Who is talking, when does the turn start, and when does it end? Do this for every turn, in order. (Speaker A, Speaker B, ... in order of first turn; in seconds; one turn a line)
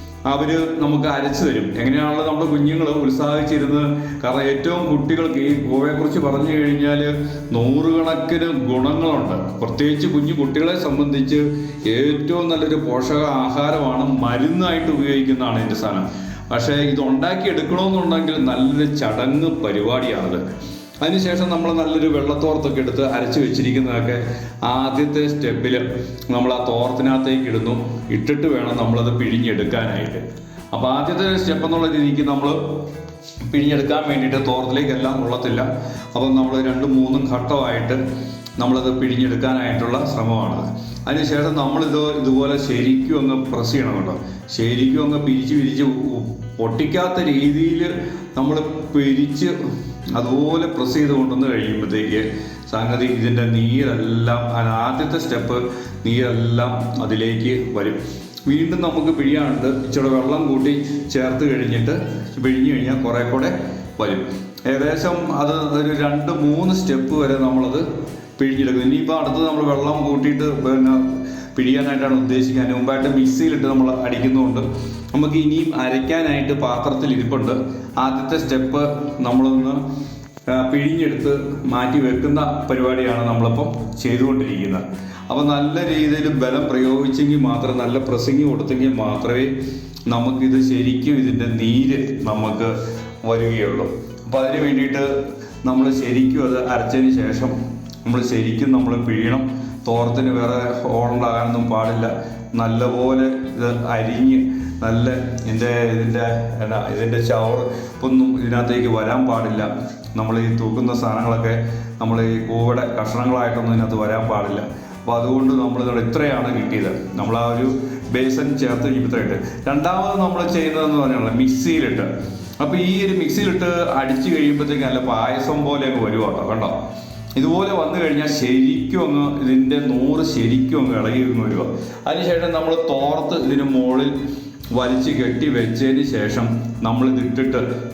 Speaker A: 0.3-20.4
Speaker A: 21.0-32.6
Speaker A: 33.5-38.0
Speaker A: 38.6-49.6
Speaker A: 50.1-67.9
Speaker A: 68.4-79.8
Speaker A: 80.5-89.5
Speaker A: 90.1-95.1
Speaker A: 95.6-122.1
Speaker A: 122.6-126.8
Speaker A: 127.4-134.2
Speaker A: 134.7-137.7